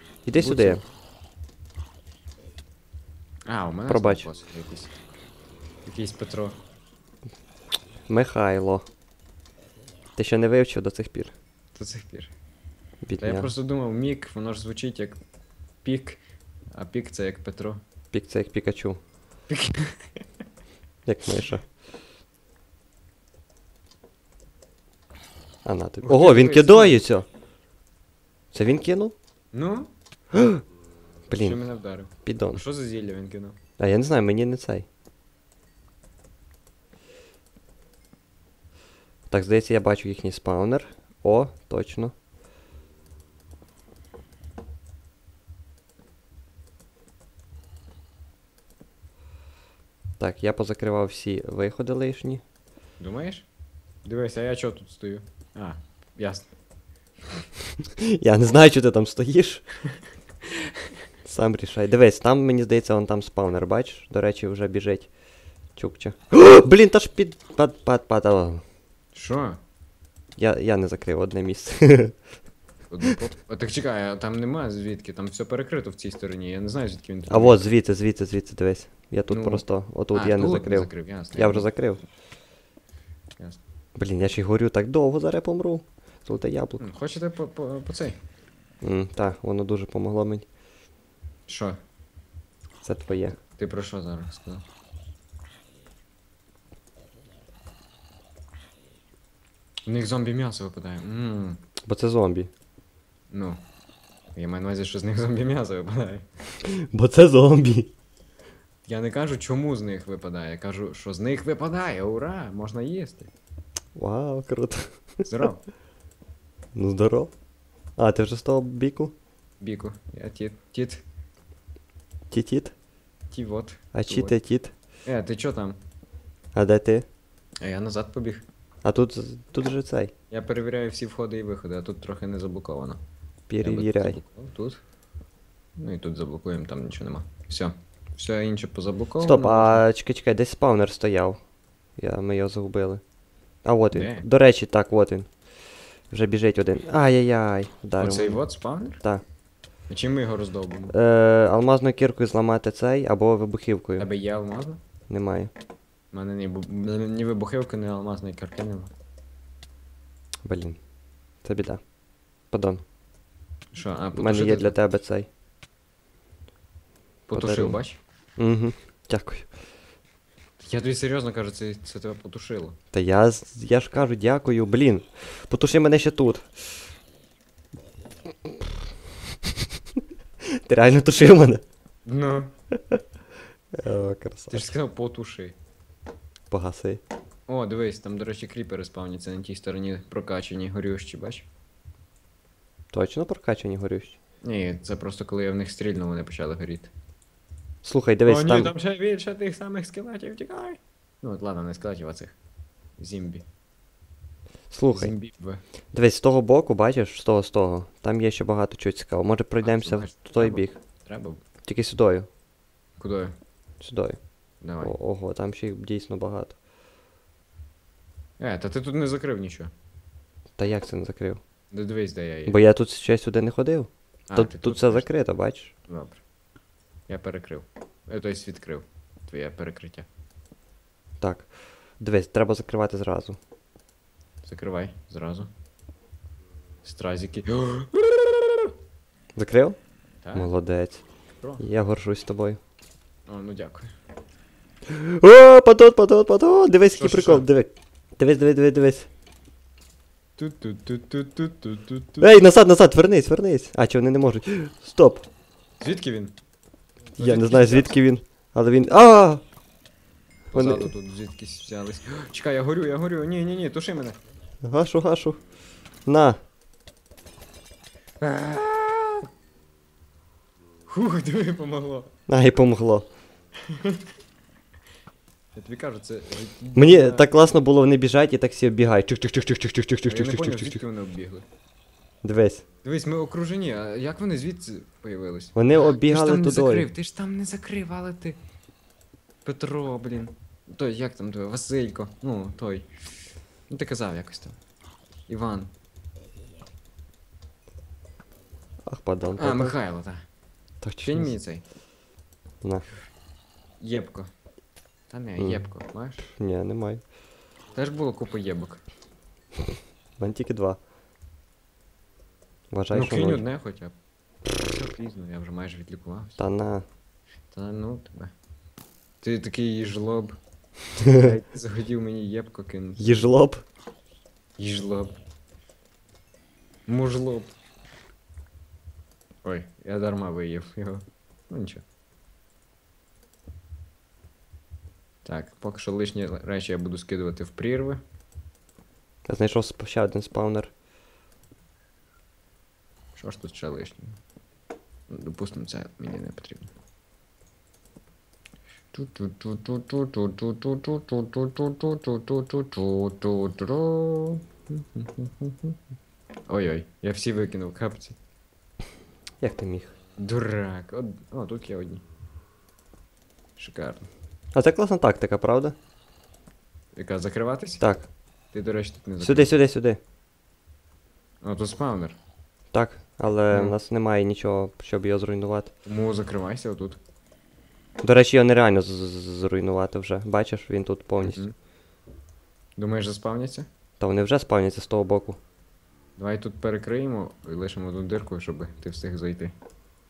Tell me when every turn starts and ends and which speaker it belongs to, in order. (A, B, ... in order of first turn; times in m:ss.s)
0:00.2-0:00.8 A
0:00.3-0:00.8 B
0:03.4-0:04.9 B
0:03.9-0:04.3 A
0:05.8-0:06.6 B
0:08.1-0:08.8 A
0:10.2-0:11.3 A
0:11.7-0:12.3 B
0:13.0-0:13.5 A
0:13.2-0:15.2 B
0:15.8-0:16.2 B
0:16.7-0:17.8 B
0:18.1-0:19.0 A
0:19.5-0:20.2 B
0:21.0-0:21.6 A
0:25.6-0:27.3 A
0:26.0-0:27.0 B
0:28.5-0:29.1 A
0:29.5-0:29.9 B
0:30.3-0:30.6 A
0:31.3-0:31.6 A
0:31.4-0:33.6 B
0:32.2-0:32.6 A
0:33.8-0:34.8 A
0:39.3-0:42.1 A
0:50.2-0:52.4 A
0:53.0-0:53.5 B
0:54.0-0:56.5 B
0:58.0-0:59.6 A
1:01.2-1:05.1 A
1:05.8-1:08.6 A
1:09.1-1:09.6 B
1:10.4-1:12.2 A
1:12.9-1:17.6 B
1:17.3-1:22.0 A
1:19.3-1:21.7 B
1:24.0-1:26.8 A
1:26.8-1:28.2 B
1:28.8-1:30.4 A
1:31.5-1:31.8 B
1:32.8-1:33.4 A
1:33.6-1:34.6 B
1:39.8-1:41.6 B
1:41.8-1:42.5 A
1:43.3-1:43.6 B
1:44.3-1:46.2 B
1:46.6-1:47.9 A
1:48.8-1:53.3 B
1:54.0-1:55.3 A
1:55.2-1:55.6 B
1:56.7-1:57.3 A
1:58.0-1:59.1 A
1:59.6-2:01.0 B
2:02.3-2:02.7 A
2:03.3-2:04.3 B
2:03.9-2:04.7 A
2:05.0-2:05.8 B
2:06.5-2:07.0 A
2:07.6-2:08.4 B
2:08.8-2:10.1 A
2:10.3-2:13.0 B
2:13.5-2:14.2 A
2:13.6-2:14.8 B
2:15.8-2:19.8 B
2:19.2-2:21.4 A
2:22.0-2:23.0 A
2:23.6-2:25.3 A
2:23.9-2:24.2 B
2:26.1-2:28.4 A
2:28.0-2:29.0 B
2:29.9-2:30.9 B
2:30.9-2:34.1 A
2:34.0-2:34.8 B
2:35.1-2:35.5 A
2:36.1-2:38.9 B
2:40.4-2:40.8 A
2:41.4-2:41.8 A
2:42.5-2:42.8 A
2:43.7-2:44.8 B
2:44.1-2:45.3 A
2:47.3-2:48.0 B
2:47.3-2:47.8 A
2:48.4-2:49.5 A
2:50.6-2:52.8 B
2:52.9-2:56.6 A
3:00.4-3:01.6 A
3:02.0-3:02.5 B
3:02.8-3:03.0 A
3:03.7-3:04.7 A
3:04.5-3:05.5 B
3:06.5-3:07.0 A
3:07.5-3:11.5 B
3:12.9-3:14.2 A
3:14.4-3:16.9 B
3:17.8-3:18.7 A
3:18.2-3:22.4 B
3:23.0-3:23.4 B
3:24.7-3:25.1 A
3:24.9-3:25.6 B
3:25.9-3:30.8 A
3:29.6-3:31.4 B
3:31.6-3:32.3 A
3:33.0-3:33.3 B
3:33.8-3:34.2 A
3:34.6-3:34.9 B
3:34.8-3:36.5 A
3:38.4-3:39.7 B
3:40.6-3:41.4 A
3:41.7-3:42.6 B
3:42.4-3:45.7 A
3:44.3-3:45.1 B
3:45.9-3:46.2 B
3:47.1-3:50.1 B
3:51.2-3:53.4 A
3:54.4-3:55.5 B
3:56.8-3:58.7 B
3:59.3-3:59.8 A
4:00.2-4:00.5 B
4:00.3-4:01.0 A
4:01.6-4:02.6 A
4:03.3-4:03.9 B
4:04.9-4:09.1 A
4:07.0-4:07.5 B
4:10.4-4:12.3 B
4:12.2-4:15.2 A
4:15.8-4:16.3 B
4:17.1-4:18.0 B
4:17.2-4:19.4 A
4:20.5-4:24.2 B
4:20.5-4:20.9 A
4:24.6-4:25.4 A
4:26.0-4:26.4 A
4:28.2-4:29.3 B
4:30.9-4:32.1 B
4:32.3-4:33.1 A
4:33.6-4:34.0 B
4:35.5-4:37.4 B
4:36.7-4:40.8 A
4:40.0-4:41.4 B
4:42.2-4:42.6 A
4:42.8-4:48.4 B
4:45.5-4:46.9 A
4:49.4-4:52.9 B
4:53.7-4:54.6 B
4:55.3-4:55.7 B
4:58.8-4:59.7 A
4:59.4-5:00.2 B
5:00.8-5:01.3 A
5:01.0-5:01.6 B
5:03.8-5:04.3 B
5:05.1-5:06.3 B
5:05.4-5:05.6 A
5:06.2-5:07.0 A
5:07.7-5:08.8 B
5:10.2-5:10.8 A
5:12.7-5:13.4 A
5:12.9-5:13.9 B
5:14.5-5:16.4 B
5:16.4-5:16.8 A
5:17.5-5:18.3 B
5:19.2-5:20.4 B
5:21.0-5:23.2 B
5:23.0-5:23.6 A
5:24.6-5:25.1 B
5:26.9-5:27.5 B
5:29.4-5:31.8 B
5:35.2-5:38.0 B
5:39.3-5:40.7 A
5:43.2-5:44.2 B
5:45.1-5:46.7 B
5:48.9-5:55.8 B
5:56.5-5:58.2 B
5:59.4-5:59.9 A
6:00.2-6:02.0 B
6:03.6-6:04.1 B
6:04.5-6:05.8 A
6:07.0-6:07.8 B
6:07.8-6:08.1 A
6:08.5-6:09.6 B
6:09.2-6:10.0 A
6:11.4-6:12.2 B
6:12.7-6:15.7 A
6:13.5-6:13.8 B
6:15.8-6:17.0 B
6:18.0-6:21.4 A
6:21.2-6:21.5 B
6:22.8-6:23.7 B
6:24.0-6:25.4 A
6:26.2-6:29.5 B